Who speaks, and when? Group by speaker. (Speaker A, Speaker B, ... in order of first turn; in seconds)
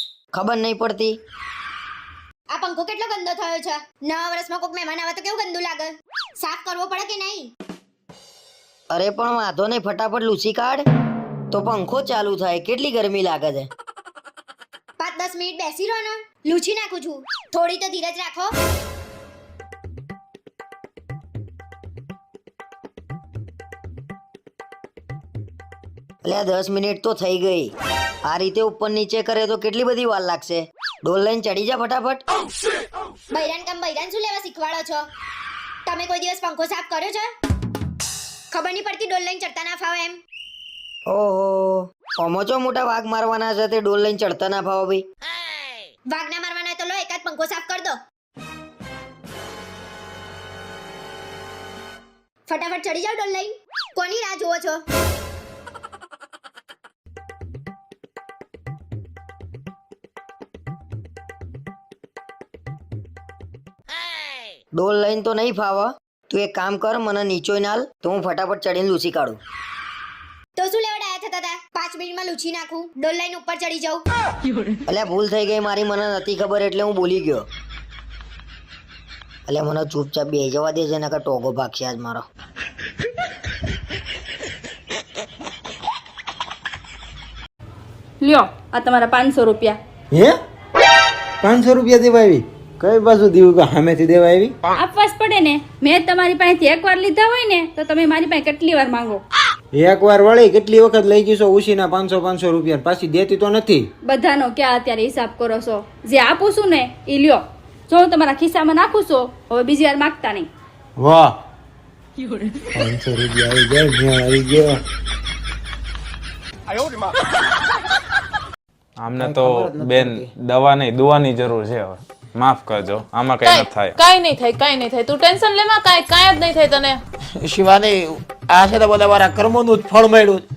Speaker A: 0.3-1.2, 8.9-10.8, 11.5-13.7, 26.2-27.7, 28.2-32.2, 41.1-45.0, 64.7-69.4, 74.9-77.4, 79.5-82.3
Speaker B: 2.5-7.5, 15.0-18.5, 33.3-35.0, 35.9-37.3, 38.5-40.2, 46.1-48.0, 52.5-54.8, 70.6-74.0
Speaker C: 88.2-89.8, 94.8-99.2, 104.0-110.5, 112.2-112.9
Speaker D: 91.4-94.5, 99.7-103.9, 111.0-111.4, 112.8-114.8, 119.2-120.3
Speaker E: 119.0-124.0
Speaker F: 123.4-127.0
Speaker G: 127.4-130.4